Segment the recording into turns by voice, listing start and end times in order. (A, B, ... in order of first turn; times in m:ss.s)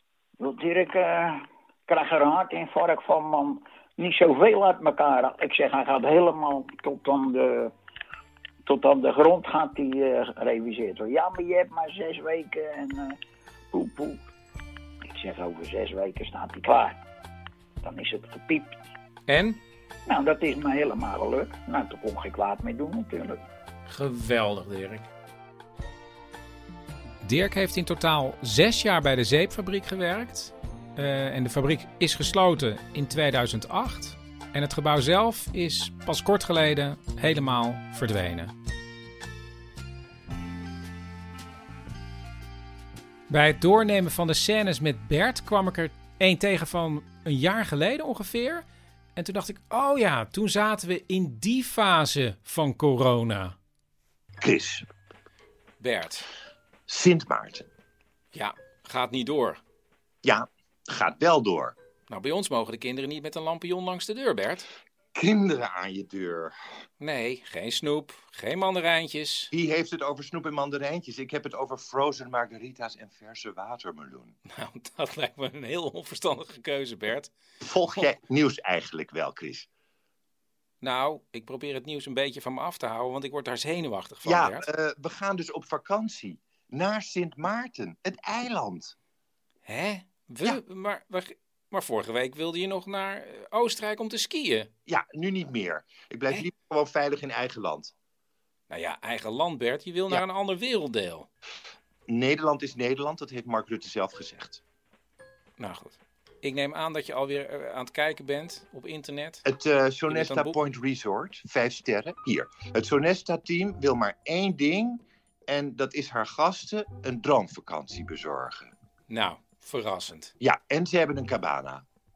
0:00.4-0:07.7 A
0:08.6-0:13.2 A
0:13.7-0:14.3 A
0:15.1-0:17.0 A
0:17.8-0:18.8 A
0:19.3-0:19.6 B
0:20.1-0:23.4 A
0:23.9-0:25.1 B
0:27.2-0:38.5 B
0:43.3-0:48.6 B
0:49.2-0:53.6 B
0:54.4-0:54.8 C
0:55.8-0:56.2 B
0:56.9-0:57.6 C
0:58.3-0:59.6 B
1:00.2-1:01.7 C
1:02.1-1:04.6 B
1:05.1-1:06.5 C
1:07.0-1:09.5 B
1:09.5-1:14.3 C
1:14.5-1:17.3 B
1:17.6-1:19.7 C
1:20.8-1:24.6 B
1:24.2-1:28.9 C
1:29.6-1:34.7 B
1:34.9-1:37.9 C
1:38.7-1:41.3 B
1:42.1-1:44.6 C
1:45.6-1:49.4 B
1:49.4-1:58.7 C
1:50.1-1:50.6 B
1:59.1-2:00.3 B
2:00.4-2:01.8 C